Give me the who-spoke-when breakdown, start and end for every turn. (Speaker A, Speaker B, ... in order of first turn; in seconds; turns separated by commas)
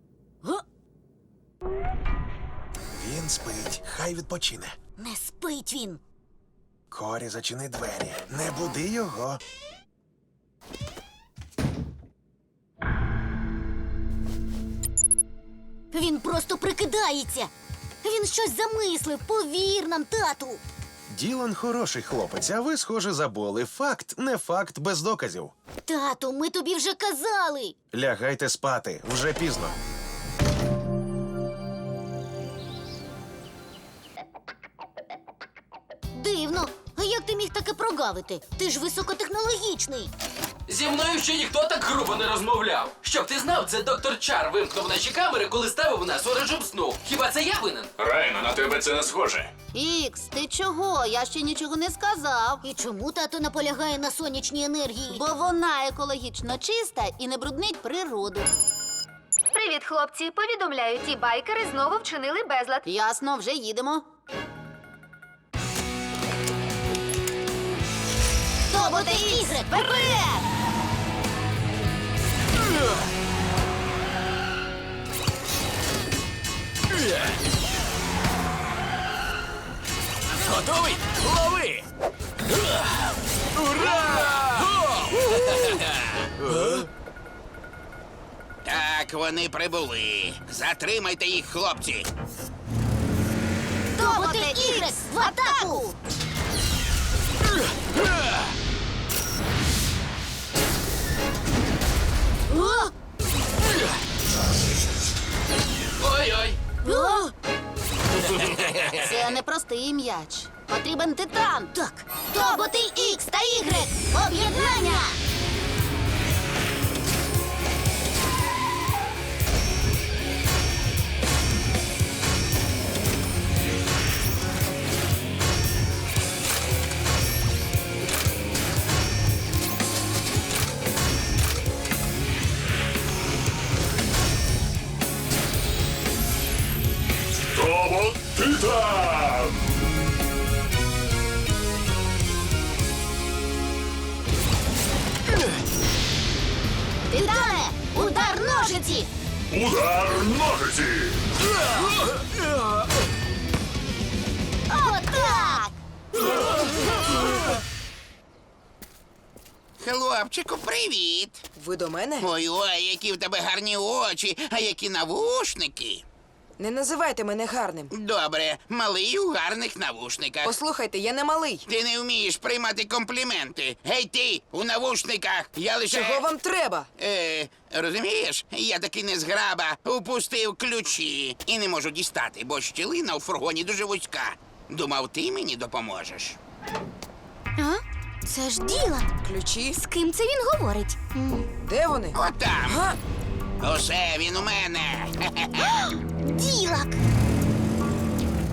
Speaker A: 2.9-4.8, Speaker B: 5.0-6.0, Speaker A: 6.9-9.4, Speaker B: 15.9-17.5, Speaker B: 18.0-20.6, Speaker A: 21.1-25.5, Speaker B: 25.9-27.7, Speaker A: 27.9-29.8, Speaker B: 36.1-40.1, Speaker C: 40.7-47.9, Speaker D: 48.0-49.5, Speaker E: 49.7-52.6, Speaker B: 52.6-55.2, Speaker E: 55.1-58.5, Speaker F: 59.5-62.8, Speaker E: 62.9-64.0, Speaker B: 68.7-69.9, Speaker E: 68.7-70.5, Speaker G: 80.4-81.8, Speaker G: 83.6-85.9, Speaker H: 84.0-84.3, Speaker H: 85.2-85.5, Speaker G: 86.4-86.9, Speaker H: 88.7-92.1, Speaker B: 94.0-95.9, Speaker E: 94.0-95.9, Speaker B: 102.5-102.9, Speaker C: 106.0-106.6, Speaker E: 106.8-107.3, Speaker B: 106.9-107.3, Speaker E: 108.9-111.7, Speaker B: 111.7-115.2, Speaker E: 112.3-114.7, Speaker D: 137.6-139.6, Speaker B: 147.1-148.8, Speaker E: 147.1-149.1, Speaker D: 149.5-151.2, Speaker B: 154.7-155.7, Speaker E: 154.7-155.7, Speaker H: 159.8-161.4, Speaker I: 161.6-162.3, Speaker H: 162.2-166.0, Speaker I: 166.6-167.9, Speaker H: 167.9-170.6, Speaker I: 170.4-171.6, Speaker H: 171.7-176.4, Speaker I: 175.9-176.9, Speaker H: 177.0-186.4, Speaker B: 187.6-189.1, Speaker I: 189.2-189.8, Speaker B: 189.8-191.4, Speaker I: 191.7-192.2, Speaker H: 192.1-192.8, Speaker I: 192.7-193.0, Speaker H: 193.6-195.9, Speaker B: 195.8-197.0